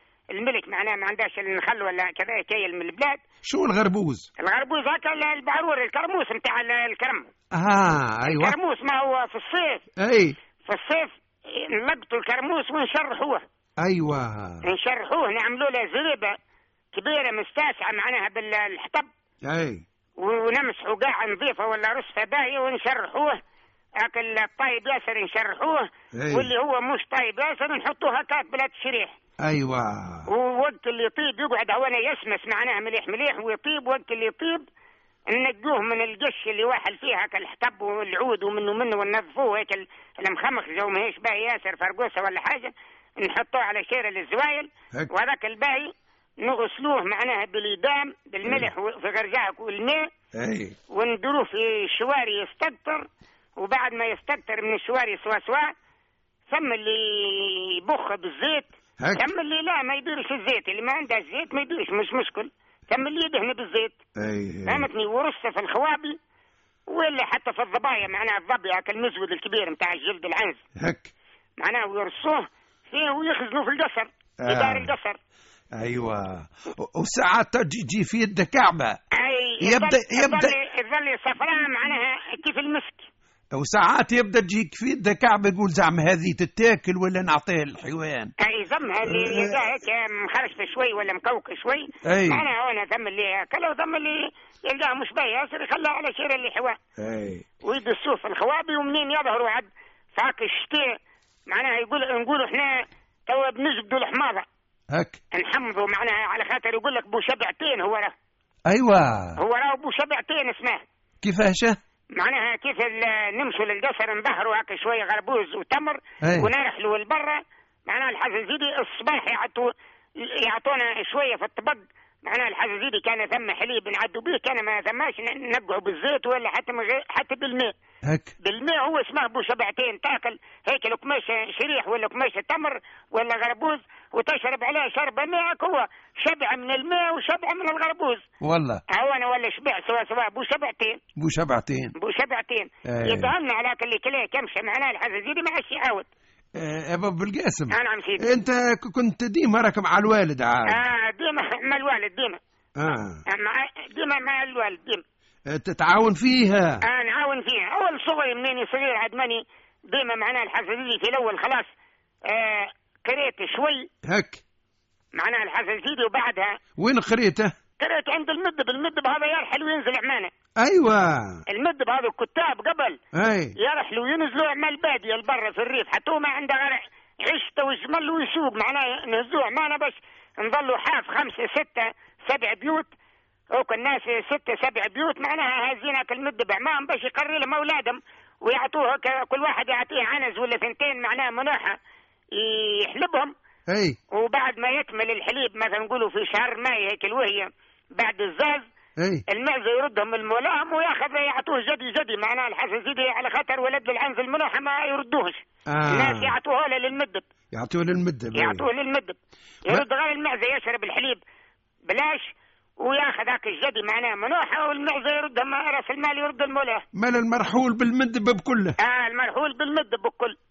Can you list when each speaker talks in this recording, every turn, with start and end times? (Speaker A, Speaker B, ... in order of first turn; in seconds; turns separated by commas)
Speaker A: 0.3-3.2, Speaker B: 3.4-4.3, Speaker A: 4.4-7.3, Speaker B: 7.5-8.6, Speaker A: 8.3-9.8, Speaker B: 10.0-10.4, Speaker A: 10.7-13.4, Speaker B: 13.8-14.7, Speaker A: 14.6-16.4, Speaker A: 16.9-19.1, Speaker B: 19.5-19.8, Speaker A: 20.2-23.4, Speaker A: 24.0-29.2, Speaker B: 26.1-26.5, Speaker B: 29.4-30.3, Speaker A: 30.3-34.6, Speaker A: 35.3-50.1, Speaker B: 50.4-50.8, Speaker A: 50.9-53.1, Speaker A: 53.6-55.7, Speaker A: 56.5-64.0, Speaker B: 59.0-59.3, Speaker B: 64.2-64.9, Speaker A: 64.7-66.2, Speaker A: 66.9-70.6, Speaker B: 70.8-71.1, Speaker A: 71.6-75.2, Speaker B: 74.4-74.9, Speaker B: 75.8-79.0, Speaker A: 79.2-83.1, Speaker B: 79.6-80.6, Speaker B: 83.5-88.3, Speaker A: 88.4-96.8, Speaker B: 89.0-89.6, Speaker B: 92.1-92.5, Speaker B: 97.0-97.5, Speaker A: 97.7-101.0, Speaker A: 101.5-104.5, Speaker B: 104.9-105.2, Speaker A: 105.3-108.2, Speaker B: 108.7-109.4, Speaker A: 109.4-110.8, Speaker B: 111.2-111.8, Speaker A: 112.2-119.7, Speaker B: 116.2-116.5, Speaker A: 120.2-127.7, Speaker B: 128.1-128.3, Speaker A: 128.4-138.3, Speaker B: 138.4-138.8, Speaker A: 138.9-141.0, Speaker B: 141.2-141.9, Speaker A: 142.0-146.1, Speaker B: 142.9-143.3, Speaker B: 146.6-150.8, Speaker A: 147.7-148.3, Speaker A: 150.7-152.4, Speaker B: 152.8-153.2, Speaker A: 153.3-155.0, Speaker B: 155.5-156.8, Speaker A: 156.8-161.7, Speaker A: 162.3-163.9, Speaker B: 164.0-164.4, Speaker A: 165.2-166.6, Speaker B: 166.8-167.5, Speaker A: 167.8-170.3, Speaker B: 170.6-171.4, Speaker A: 171.5-173.0, Speaker B: 173.2-173.6, Speaker A: 173.6-182.9, Speaker A: 183.6-191.8, Speaker A: 192.4-193.3, Speaker B: 193.7-194.0, Speaker A: 194.1-198.7, Speaker B: 199.0-199.2, Speaker A: 199.3-207.2, Speaker B: 205.7-206.3, Speaker B: 207.5-208.7, Speaker A: 208.3-211.2, Speaker A: 211.9-216.9, Speaker B: 216.9-218.8, Speaker A: 218.8-220.4